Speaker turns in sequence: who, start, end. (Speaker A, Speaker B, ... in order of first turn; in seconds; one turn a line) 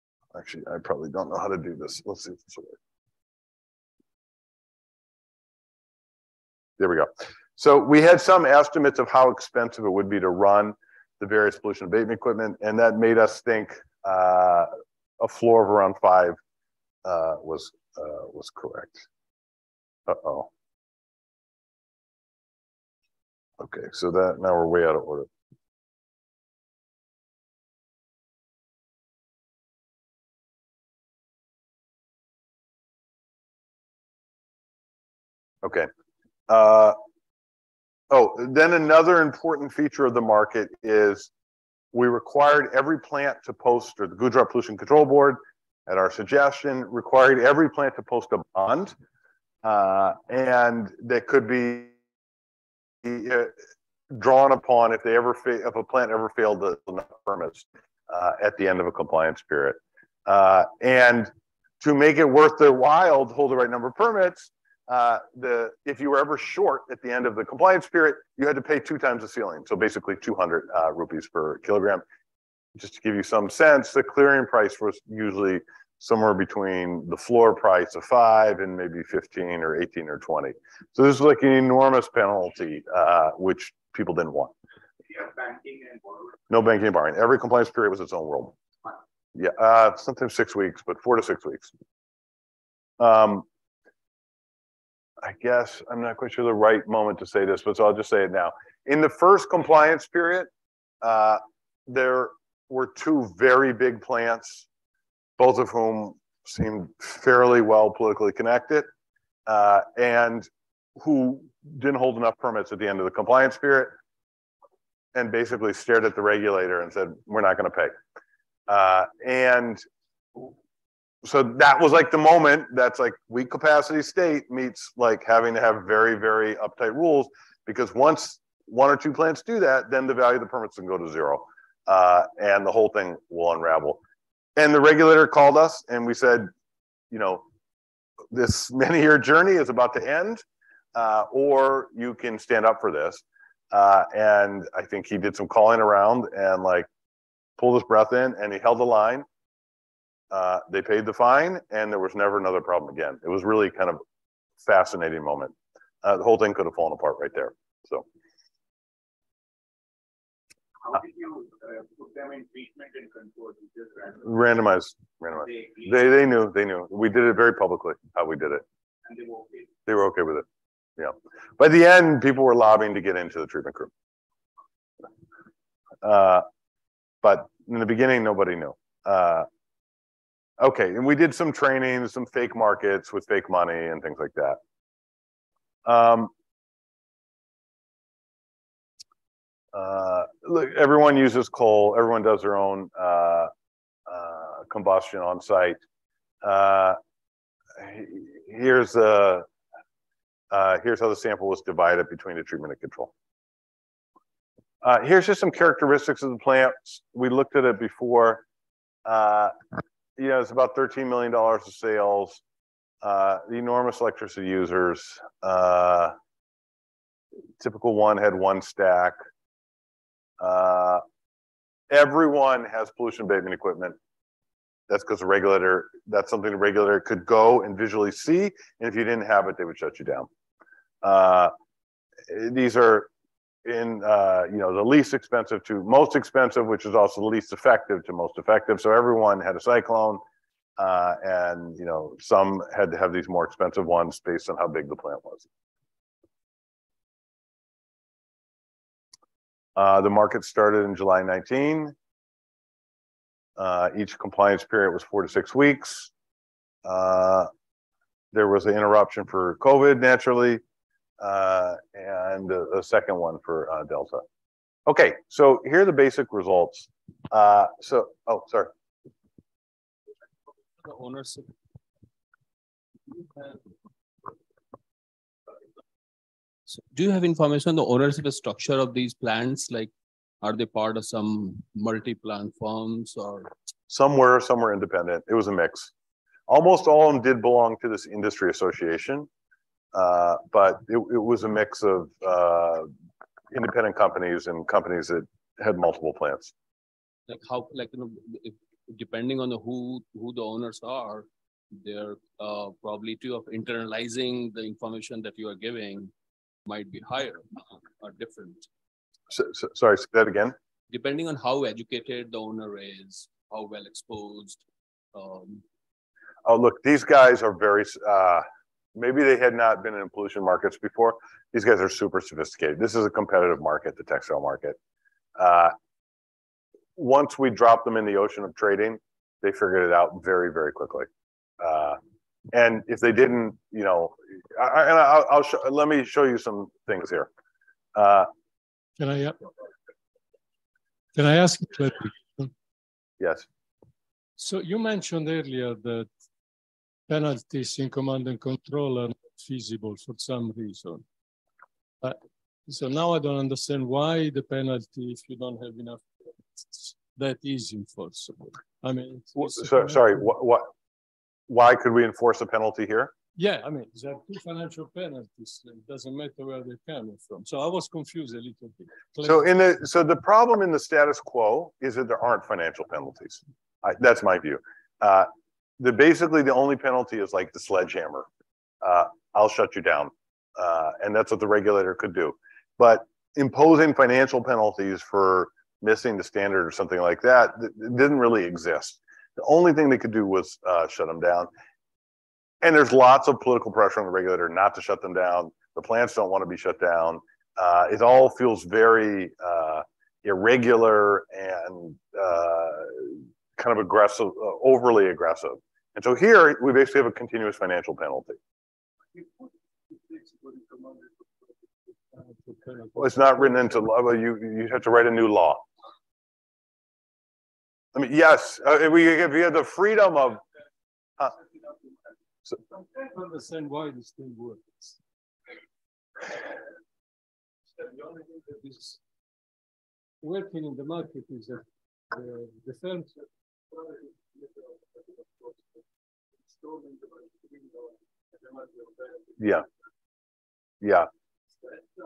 Speaker A: 0.3-2.8
Speaker A: 6.8-16.4
Speaker A: 17.0-19.1
Speaker A: 20.1-20.5
Speaker A: 23.6-25.3
Speaker A: 35.6-35.9
Speaker A: 36.5-37.0
Speaker A: 38.1-41.3
Speaker A: 41.9-48.9
Speaker A: 49.6-51.9
Speaker A: 53.0-53.5
Speaker A: 54.1-72.0
Speaker A: 72.8-84.5
Speaker B: 85.1-86.4
Speaker A: 86.5-88.5
Speaker A: 89.3-91.7
Speaker A: 93.0-93.4
Speaker A: 95.2-100.5
Speaker A: 101.0-104.7
Speaker A: 105.4-108.9
Speaker A: 109.5-113.9
Speaker A: 115.1-117.9
Speaker A: 118.7-119.8
Speaker A: 121.2-134.0
Speaker A: 134.6-136.5
Speaker A: 137.1-137.4
Speaker A: 138.3-140.4
Speaker A: 140.9-146.9
Speaker A: 147.6-149.2
Speaker A: 150.3-154.0
Speaker A: 154.6-158.0
Speaker B: 160.8-164.2
Speaker A: 164.2-168.6
Speaker B: 165.5-165.9
Speaker B: 169.1-169.7
Speaker A: 169.9-170.4
Speaker A: 171.0-173.9
Speaker A: 176.0-176.4
Speaker A: 177.2-179.5
Speaker A: 180.6-184.6
Speaker A: 185.8-186.3
Speaker A: 189.7-193.5
Speaker A: 194.1-195.8
Speaker A: 196.4-197.0
Speaker A: 197.8-199.4
Speaker A: 200.5-203.1
Speaker A: 204.8-208.4
Speaker A: 209.0-209.5
Speaker A: 210.2-212.4
Speaker A: 213.0-216.1
Speaker A: 217.6-219.2
Speaker A: 220.4-221.0
Speaker A: 221.9-224.0
Speaker A: 224.9-230.3
Speaker A: 231.0-231.5
Speaker A: 232.3-233.1
Speaker A: 233.6-240.2
Speaker A: 240.8-245.5
Speaker A: 249.8-251.9
Speaker A: 253.6-256.1
Speaker A: 256.8-257.5
Speaker A: 258.3-260.6
Speaker A: 261.2-264.2
Speaker A: 264.9-268.7
Speaker C: 270.8-271.5
Speaker C: 276.7-279.9
Speaker C: 280.4-283.5
Speaker A: 283.9-285.9
Speaker A: 286.5-289.3
Speaker A: 289.9-292.9
Speaker A: 293.5-296.5
Speaker C: 297.3-301.3
Speaker C: 301.8-306.1
Speaker C: 306.6-308.7
Speaker A: 309.3-310.5
Speaker C: 310.9-314.6
Speaker C: 315.1-315.6
Speaker A: 316.4-318.4
Speaker A: 318.9-324.8
Speaker A: 325.4-325.7
Speaker A: 326.9-331.1
Speaker A: 331.6-332.0
Speaker A: 332.5-337.3
Speaker A: 337.9-338.3
Speaker D: 339.0-339.4
Speaker D: 341.1-342.5
Speaker A: 343.2-343.4
Speaker D: 344.4-346.1
Speaker D: 347.1-351.0
Speaker D: 352.0-356.0
Speaker D: 356.7-360.1
Speaker A: 359.4-360.7
Speaker A: 361.5-363.1
Speaker D: 363.4-369.4
Speaker A: 369.2-378.3
Speaker A: 378.8-391.5
Speaker A: 392.6-408.4
Speaker D: 409.9-411.1
Speaker D: 412.1-413.8
Speaker A: 412.9-415.6
Speaker A: 417.9-420.4
Speaker D: 422.7-424.9
Speaker D: 427.8-429.0
Speaker D: 430.2-433.2
Speaker D: 433.7-434.4
Speaker D: 435.2-435.6
Speaker D: 436.6-439.2
Speaker A: 439.4-439.6
Speaker A: 440.8-441.1